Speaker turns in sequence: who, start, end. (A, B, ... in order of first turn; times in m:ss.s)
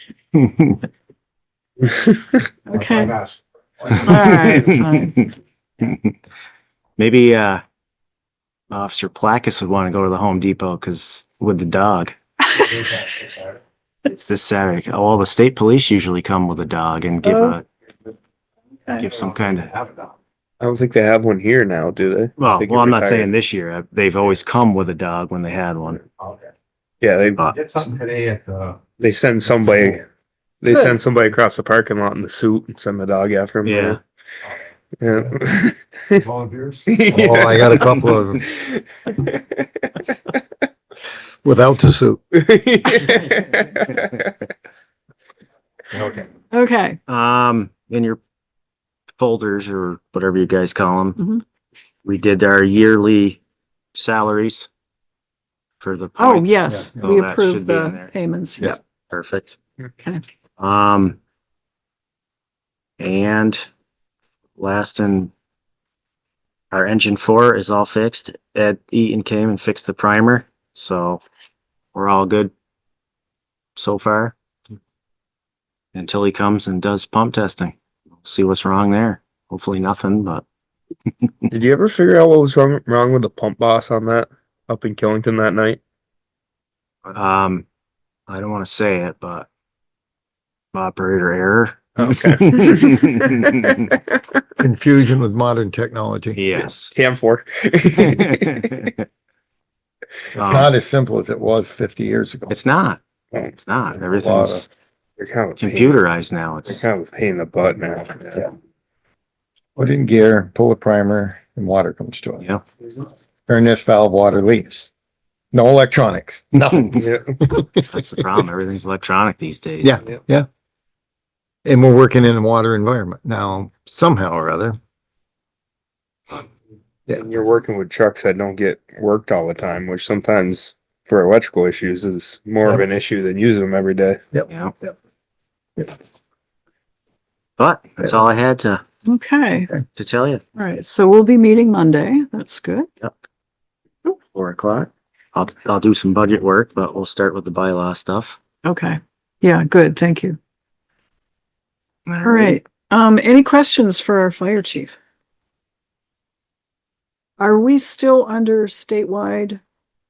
0:00.3-0:00.8 A
0:02.7-0:03.2 B
0:02.7-0:04.4 C
0:04.0-0:05.3 B
0:04.1-0:05.2 A
0:05.8-0:06.1 A
0:07.0-0:07.6 A
0:08.7-0:12.1 A
0:12.5-0:12.8 B
0:12.6-0:13.6 C
0:14.0-0:17.6 A
0:17.2-0:17.6 B
0:18.9-0:19.7 A
0:19.1-0:20.2 C
0:20.6-0:23.3 D
0:22.4-0:26.0 A
0:26.2-0:26.5 C
0:27.0-0:27.4 D
0:27.4-0:28.9 C
0:29.0-0:30.0 D
0:30.6-0:34.0 D
0:33.6-0:34.0 A
0:35.0-0:36.2 D
0:36.2-0:37.5 C
0:36.9-0:40.4 D
0:37.1-0:38.5 E
0:41.4-0:42.2 E
0:42.3-0:44.3 D
0:45.9-0:46.3 C
0:46.5-0:47.0 B
0:47.1-0:48.2 A
0:49.2-0:51.2 A
0:51.2-0:51.4 B
0:52.0-0:53.4 A
0:53.9-0:54.7 A
0:55.8-0:58.1 A
0:56.2-0:58.8 B
0:56.7-0:57.0 E
0:59.1-0:59.6 A
1:00.6-1:01.2 A
1:03.0-1:03.6 A
1:04.6-1:05.3 A
1:06.7-1:11.2 A
1:11.9-1:12.5 A
1:13.8-1:14.3 A
1:15.9-1:20.4 A
1:21.5-1:25.8 D
1:27.0-1:27.6 A
1:28.3-1:29.5 A
1:30.7-1:33.9 A
1:32.0-1:34.4 D
1:34.6-1:36.4 E
1:36.4-1:36.9 A
1:36.8-1:38.9 D
1:38.0-1:39.0 A
1:40.3-1:42.5 E
1:40.4-1:40.7 A
1:42.5-1:43.0 A
1:43.5-1:44.7 A
1:44.0-1:44.6 E
1:45.2-1:46.0 D
1:45.6-1:46.8 A
1:46.6-1:48.5 D
1:49.8-1:52.5 E
1:53.5-1:54.9 E
1:55.5-1:58.2 E
1:56.9-1:57.2 D
1:57.9-2:00.0 A
1:59.8-2:00.5 E
2:01.6-2:04.8 E
2:07.1-2:14.2 D
2:14.5-2:14.7 A
2:17.6-2:18.8 A
2:19.0-2:19.7 B
2:19.9-2:20.4 A
2:20.5-2:22.9 B
2:24.1-2:28.4 A
2:28.6-2:30.4 B
2:32.1-2:32.6 A
2:32.2-2:34.9 B
2:37.4-2:39.6 B